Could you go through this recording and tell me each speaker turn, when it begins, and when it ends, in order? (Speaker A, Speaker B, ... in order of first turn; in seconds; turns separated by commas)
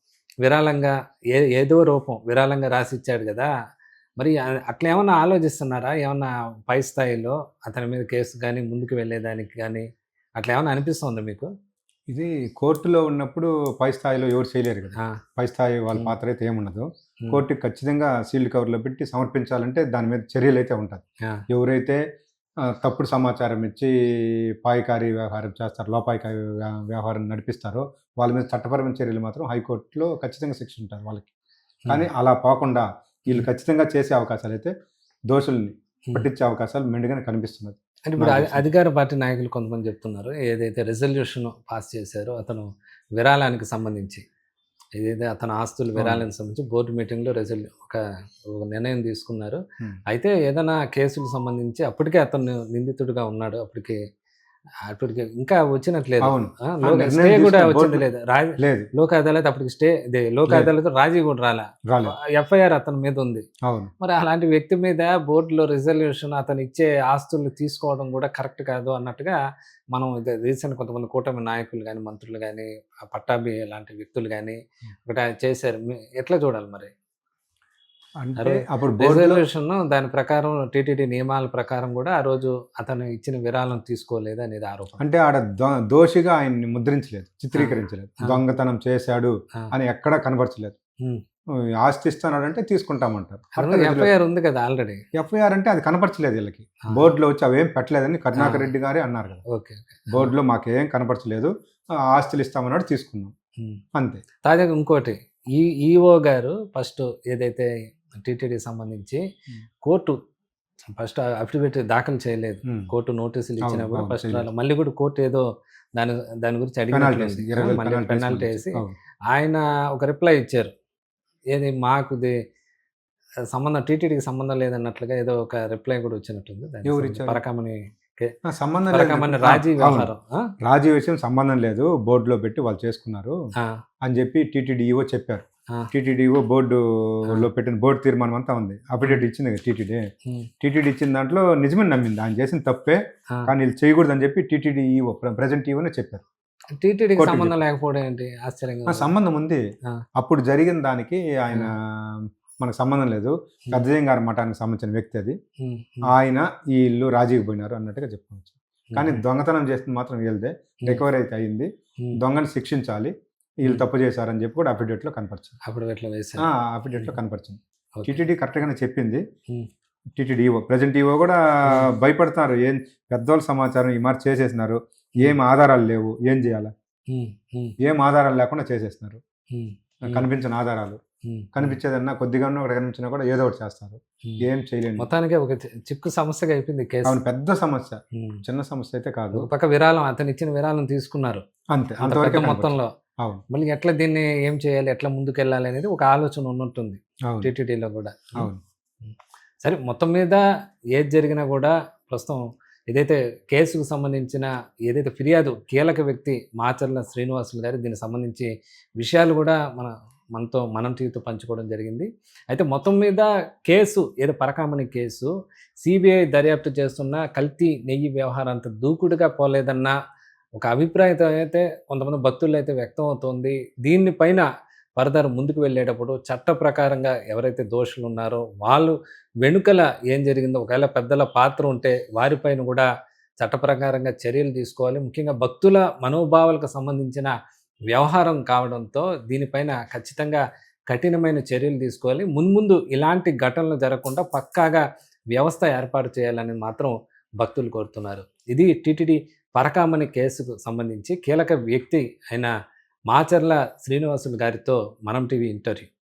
Speaker A: 0.4-3.5, Speaker A: 4.2-11.5, Speaker B: 12.1-22.0, Speaker B: 22.6-31.3, Speaker B: 31.9-34.7, Speaker B: 35.3-38.6, Speaker A: 38.1-44.2, Speaker A: 45.0-54.0, Speaker B: 46.0-46.2, Speaker A: 54.9-63.4, Speaker B: 56.2-58.0, Speaker B: 58.6-58.9, Speaker B: 61.9-62.1, Speaker B: 63.6-63.9, Speaker A: 64.0-69.4, Speaker A: 69.9-76.9, Speaker B: 78.2-79.4, Speaker A: 78.4-85.0, Speaker B: 85.0-90.8, Speaker A: 87.5-88.4, Speaker B: 91.6-94.1, Speaker A: 93.6-95.0, Speaker B: 95.1-99.4, Speaker A: 98.3-98.7, Speaker A: 99.5-100.3, Speaker B: 100.1-103.3, Speaker B: 103.9-104.2, Speaker A: 104.4-109.2, Speaker A: 109.8-110.2, Speaker A: 110.9-120.7, Speaker B: 112.7-112.9, Speaker B: 113.6-114.5, Speaker B: 116.9-118.9, Speaker A: 121.5-122.4, Speaker A: 123.5-128.3, Speaker B: 126.8-127.4, Speaker B: 128.4-130.1, Speaker A: 128.9-130.5, Speaker B: 130.6-133.4, Speaker B: 134.0-140.1, Speaker B: 140.6-146.2, Speaker A: 146.7-149.1, Speaker B: 147.2-147.6, Speaker B: 148.9-149.6, Speaker B: 150.2-155.4, Speaker A: 155.6-156.1, Speaker B: 156.1-165.6, Speaker A: 158.9-159.2, Speaker A: 165.6-166.5, Speaker B: 166.4-169.2, Speaker B: 170.2-176.7, Speaker A: 177.1-177.7, Speaker B: 177.8-179.2, Speaker A: 179.5-180.3, Speaker B: 180.0-181.0, Speaker A: 181.3-181.8, Speaker B: 181.5-185.1, Speaker A: 185.0-187.2, Speaker B: 187.0-189.5, Speaker A: 188.1-188.4, Speaker A: 189.3-191.4, Speaker B: 191.7-193.4, Speaker A: 192.0-192.9, Speaker A: 193.5-198.5, Speaker A: 199.0-215.3, Speaker A: 215.8-220.0, Speaker A: 220.6-224.4, Speaker A: 225.0-232.9, Speaker A: 233.4-237.3, Speaker A: 237.9-252.5, Speaker A: 253.1-255.9